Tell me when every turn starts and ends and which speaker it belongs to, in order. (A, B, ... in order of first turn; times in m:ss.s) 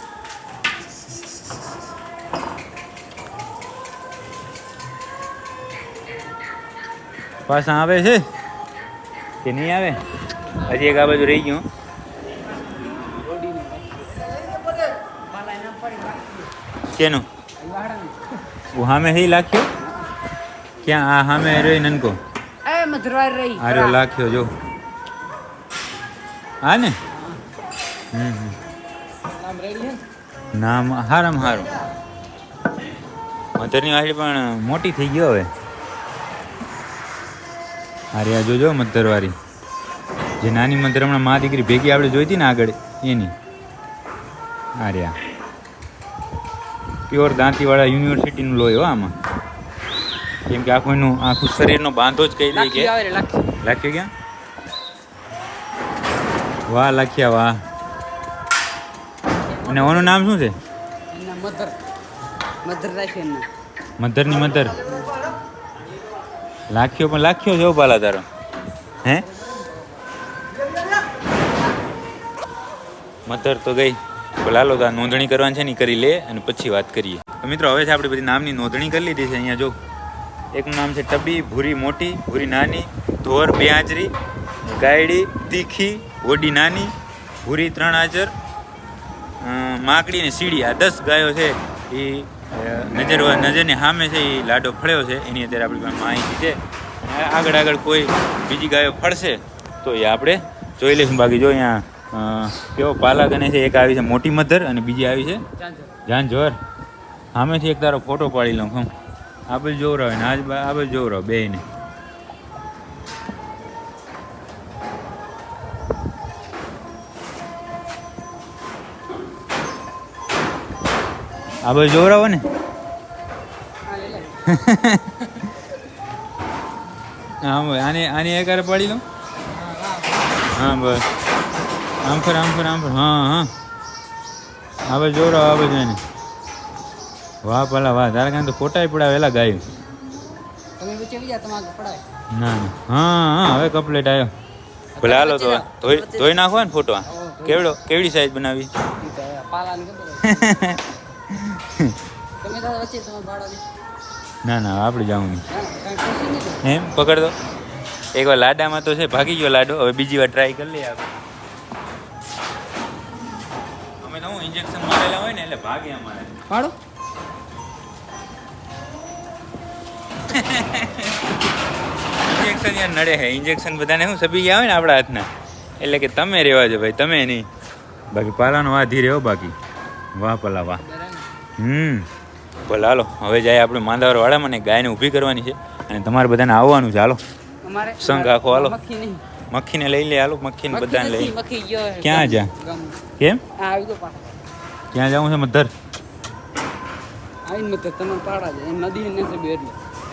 0:07.5-0:08.2 A
0:09.4-0:10.0 A
0:10.6-0:11.6 A
0:13.2-0:14.4 B
0:15.5-0:16.4 B
0:16.9-0:17.2 A
0:17.6-0:18.2 B
0:18.7-0:19.7 A
0:19.8-0:20.1 B
0:20.8-0:22.2 A
0:22.6-0:24.0 B
0:23.6-0:24.5 A
0:26.6-0:27.0 A
0:27.1-0:27.4 B
0:28.1-0:28.6 A
0:29.4-0:30.0 B
0:30.5-0:31.7 A
0:33.6-0:35.5 A
0:38.1-0:39.4 A
0:40.4-0:43.3 A
0:44.8-0:45.2 A
0:47.1-0:49.1 A
0:50.5-0:52.9 A
0:52.5-0:53.5 B
0:53.6-0:54.1 A
0:56.7-0:57.6 A
0:59.5-1:00.2 B
0:59.6-1:00.5 A
1:01.1-1:01.8 B
1:02.6-1:03.5 B
1:04.0-1:04.8 A
1:06.7-1:08.2 A
1:13.2-1:19.7 A
1:20.5-1:24.1 A
1:24.7-1:26.9 A
1:27.4-1:28.3 A
1:29.4-1:45.4 A
1:45.6-1:45.9 B
1:46.1-1:46.6 A
1:47.3-1:48.9 A
1:49.5-1:51.6 A
2:01.6-2:02.4 A
2:03.9-2:04.4 B
2:04.5-2:05.4 A
2:07.4-2:09.0 A
2:09.5-2:10.4 B
2:10.5-2:11.0 A
2:12.0-2:13.5 A
2:14.9-2:16.0 A
2:17.4-2:19.6 A
2:20.8-2:22.0 B
2:22.3-2:24.3 A
2:25.0-2:26.3 B
2:25.0-2:28.7 A
2:27.1-2:27.6 B
2:29.0-2:30.5 B
2:30.2-2:32.0 A
2:32.4-2:33.6 B
2:34.4-2:35.4 A
2:35.5-2:36.6 B
2:36.6-2:37.4 A
2:38.1-2:41.1 A
2:44.0-2:46.4 A
2:46.5-2:46.8 B
2:50.3-2:51.2 A
2:52.2-2:55.3 A
2:55.8-2:57.5 A
2:58.1-2:59.5 A
3:00.2-3:00.8 A
3:00.8-3:01.3 B
3:01.6-3:02.1 A
3:02.7-3:07.2 A
3:07.6-3:09.2 B
3:08.0-3:08.8 A
3:09.5-3:11.4 A
3:10.7-3:13.0 B
3:12.0-3:12.5 A
3:13.6-3:14.4 B
3:14.9-3:15.7 A
3:17.4-3:19.8 B